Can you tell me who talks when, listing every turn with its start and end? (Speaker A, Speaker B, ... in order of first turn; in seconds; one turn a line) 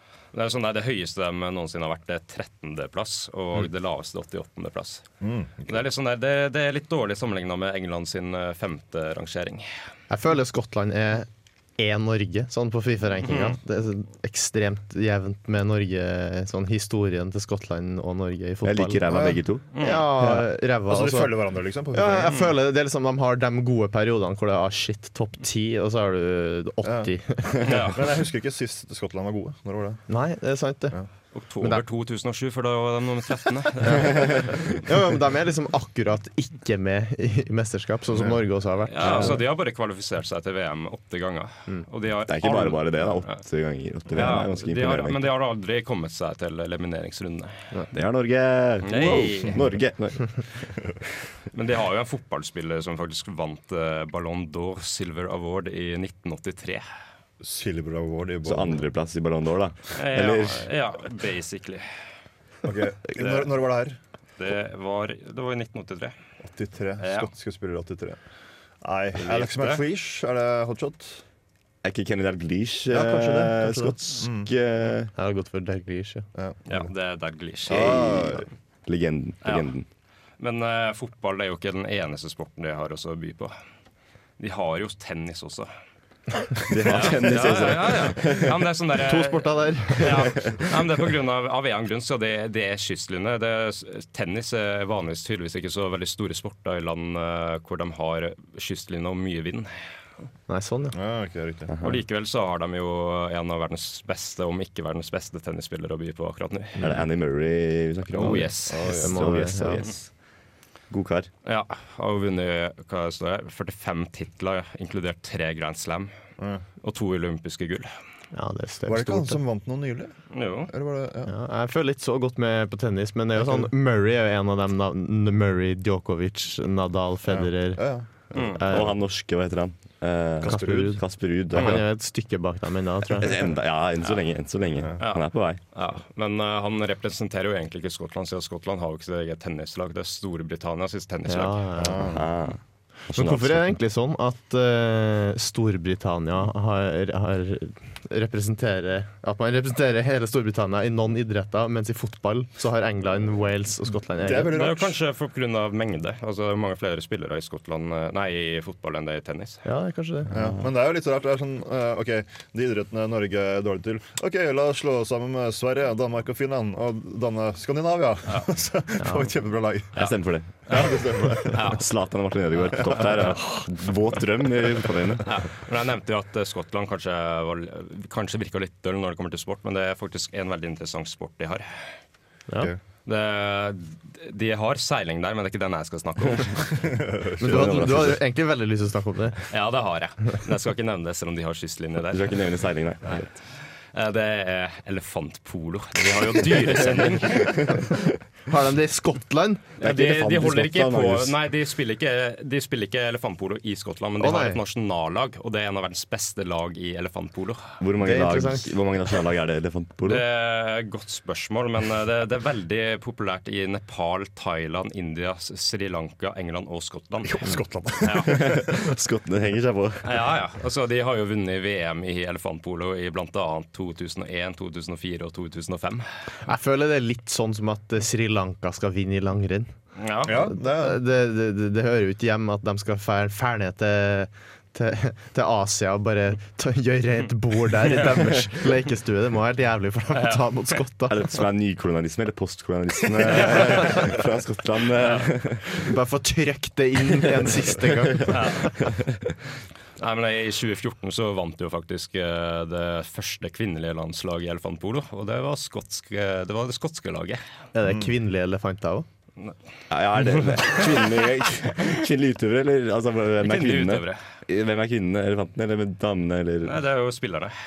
Speaker A: 0.3-5.0
Speaker B: 5.2-5.8
Speaker A: 5.7-9.6
Speaker C: 10.1-27.7
Speaker D: 18.6-19.6
Speaker B: 19.1-19.4
Speaker A: 19.7-20.1
Speaker B: 20.2-22.4
Speaker B: 26.8-27.1
Speaker A: 27.7-28.0
Speaker B: 27.8-30.0
Speaker C: 30.1-30.9
Speaker A: 31.3-34.4
Speaker C: 34.8-39.4
Speaker B: 38.1-38.4
Speaker A: 38.9-43.4
Speaker D: 39.0-39.4
Speaker D: 42.2-45.2
Speaker A: 44.1-47.5
Speaker D: 47.9-50.4
Speaker A: 48.8-49.6
Speaker A: 51.5-56.8
Speaker B: 57.4-58.9
Speaker D: 58.4-60.7
Speaker A: 60.0-61.8
Speaker B: 62.6-64.0
Speaker A: 63.2-63.5
Speaker A: 64.4-66.1
Speaker B: 66.4-68.2
Speaker A: 67.0-67.3
Speaker B: 68.8-71.2
Speaker A: 69.1-69.8
Speaker D: 71.8-75.1
Speaker B: 72.9-74.5
Speaker C: 75.2-76.3
Speaker B: 76.4-76.9
Speaker A: 76.7-78.1
Speaker B: 77.7-78.5
Speaker D: 77.7-79.8
Speaker A: 79.4-79.7
Speaker A: 80.4-83.5
Speaker A: 84.4-85.7
Speaker D: 86.7-88.7
Speaker A: 86.8-99.7
Speaker C: 89.0-90.2
Speaker C: 100.5-100.9
Speaker B: 100.9-101.7
Speaker D: 101.7-102.0
Speaker A: 101.8-106.8
Speaker C: 106.8-107.0
Speaker D: 106.8-110.1
Speaker A: 108.1-108.9
Speaker C: 108.2-109.8
Speaker B: 108.7-109.2
Speaker D: 110.9-111.3
Speaker A: 111.4-116.1
Speaker A: 116.8-117.9
Speaker C: 118.3-119.4
Speaker B: 118.9-121.3
Speaker A: 120.3-120.7
Speaker C: 121.2-128.9
Speaker B: 123.4-123.7
Speaker B: 127.3-128.6
Speaker D: 128.7-131.9
Speaker C: 130.4-133.4
Speaker B: 130.4-130.9
Speaker D: 133.2-135.6
Speaker A: 135.0-141.6
Speaker C: 141.2-142.1
Speaker B: 141.8-142.3
Speaker D: 142.0-143.8
Speaker C: 143.1-154.5
Speaker B: 154.2-155.0
Speaker A: 154.5-159.6
Speaker C: 159.6-160.3
Speaker B: 160.3-169.9
Speaker C: 169.0-169.3
Speaker D: 169.9-170.5
Speaker B: 170.7-171.8
Speaker A: 170.7-170.9
Speaker A: 171.4-171.8
Speaker D: 171.7-175.3
Speaker B: 172.8-173.3
Speaker A: 175.2-181.6
Speaker A: 183.1-186.9
Speaker B: 187.0-188.1
Speaker C: 187.4-189.4
Speaker D: 187.5-188.2
Speaker A: 189.5-192.3
Speaker D: 192.1-193.3
Speaker A: 193.9-197.6
Speaker C: 198.5-199.6
Speaker A: 199.8-207.7
Speaker D: 199.8-201.4
Speaker C: 204.2-204.6
Speaker D: 207.8-210.2
Speaker C: 208.0-208.7
Speaker A: 210.1-217.4
Speaker B: 217.2-218.9
Speaker A: 218.0-218.4
Speaker D: 218.2-220.1
Speaker A: 220.0-226.0
Speaker C: 226.4-229.7
Speaker A: 230.0-230.5
Speaker B: 230.2-231.0
Speaker C: 230.5-241.2
Speaker A: 238.0-238.5
Speaker A: 240.1-240.4
Speaker D: 241.1-245.8
Speaker A: 243.3-243.9
Speaker C: 245.8-248.7
Speaker A: 248.3-248.7
Speaker D: 248.9-249.3
Speaker A: 250.0-257.4
Speaker C: 257.7-259.1
Speaker B: 257.8-258.1
Speaker D: 259.9-266.8
Speaker A: 260.3-260.9
Speaker A: 263.4-264.2
Speaker A: 266.6-267.5